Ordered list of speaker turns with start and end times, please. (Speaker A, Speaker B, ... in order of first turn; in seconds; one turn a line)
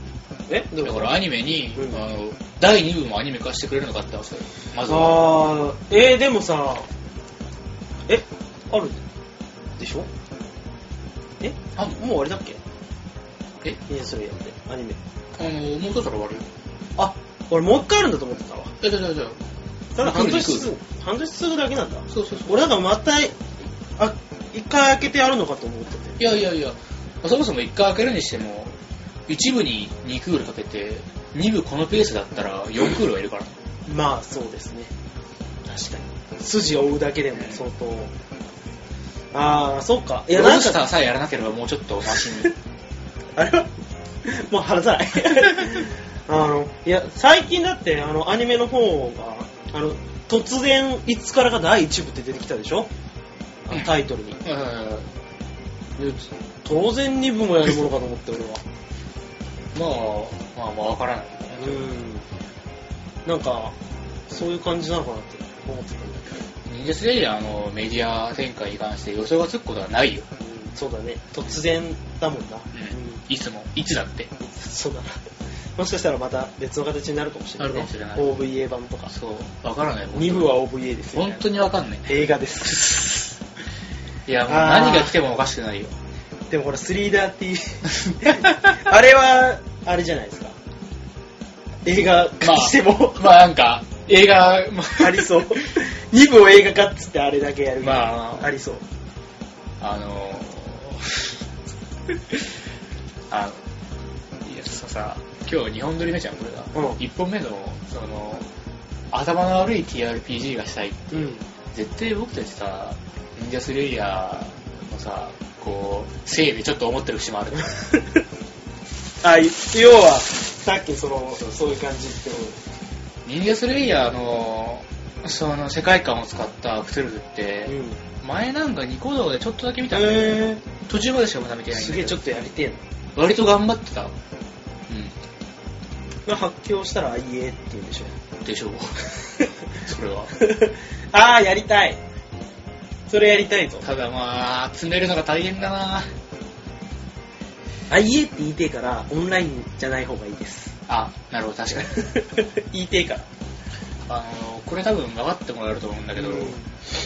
Speaker A: 0.5-1.1
Speaker B: 0.8-5.2
Speaker A: 1.8-2.0
Speaker A: 4.9-6.9
Speaker A: 8.1-9.0
Speaker A: 9.8-10.1
Speaker A: 11.4-12.6
Speaker A: 13.9-15.0
Speaker B: 15.4-16.5
Speaker A: 17.0-18.7
Speaker B: 18.8-19.4
Speaker A: 19.9-23.4
Speaker B: 20.0-20.7
Speaker B: 22.1-22.7
Speaker A: 24.0-26.2
Speaker B: 26.2-33.5
Speaker A: 33.9-34.9
Speaker A: 35.7-38.1
Speaker A: 39.3-40.8
Speaker B: 40.3-42.5
Speaker A: 43.4-43.7
Speaker A: 44.2-52.9
Speaker A: 53.7-54.4
Speaker B: 54.4-55.1
Speaker A: 56.0-58.6
Speaker B: 59.7-61.9
Speaker A: 61.6-62.3
Speaker A: 63.3-63.7
Speaker A: 64.3-66.4
Speaker B: 66.7-70.3
Speaker A: 70.4-73.2
Speaker B: 72.7-74.3
Speaker A: 74.4-75.2
Speaker A: 75.8-79.1
Speaker B: 77.6-78.3
Speaker B: 79.1-80.5
Speaker A: 80.1-81.5
Speaker B: 81.1-83.3
Speaker A: 82.0-83.0
Speaker B: 84.3-86.0
Speaker A: 84.5-85.2
Speaker A: 86.5-90.5
Speaker B: 88.2-88.5
Speaker A: 91.8-93.3
Speaker B: 92.4-95.6
Speaker A: 95.0-98.8
Speaker B: 97.8-98.5
Speaker B: 99.8-101.4
Speaker B: 103.3-103.6
Speaker B: 104.4-108.5
Speaker A: 106.7-107.0
Speaker B: 109.1-117.7
Speaker A: 111.1-111.4
Speaker A: 117.7-118.0
Speaker A: 119.2-122.6
Speaker B: 123.2-132.2
Speaker A: 127.7-128.0
Speaker A: 129.9-130.6
Speaker A: 131.7-132.8
Speaker B: 133.2-134.1
Speaker B: 134.9-135.2
Speaker A: 136.3-138.1
Speaker B: 138.4-139.0
Speaker B: 139.8-140.3
Speaker A: 140.4-142.0
Speaker A: 143.1-143.9
Speaker B: 143.8-146.1
Speaker A: 147.9-150.7
Speaker B: 150.9-151.9
Speaker A: 151.7-153.3
Speaker B: 154.1-156.6
Speaker A: 156.2-156.7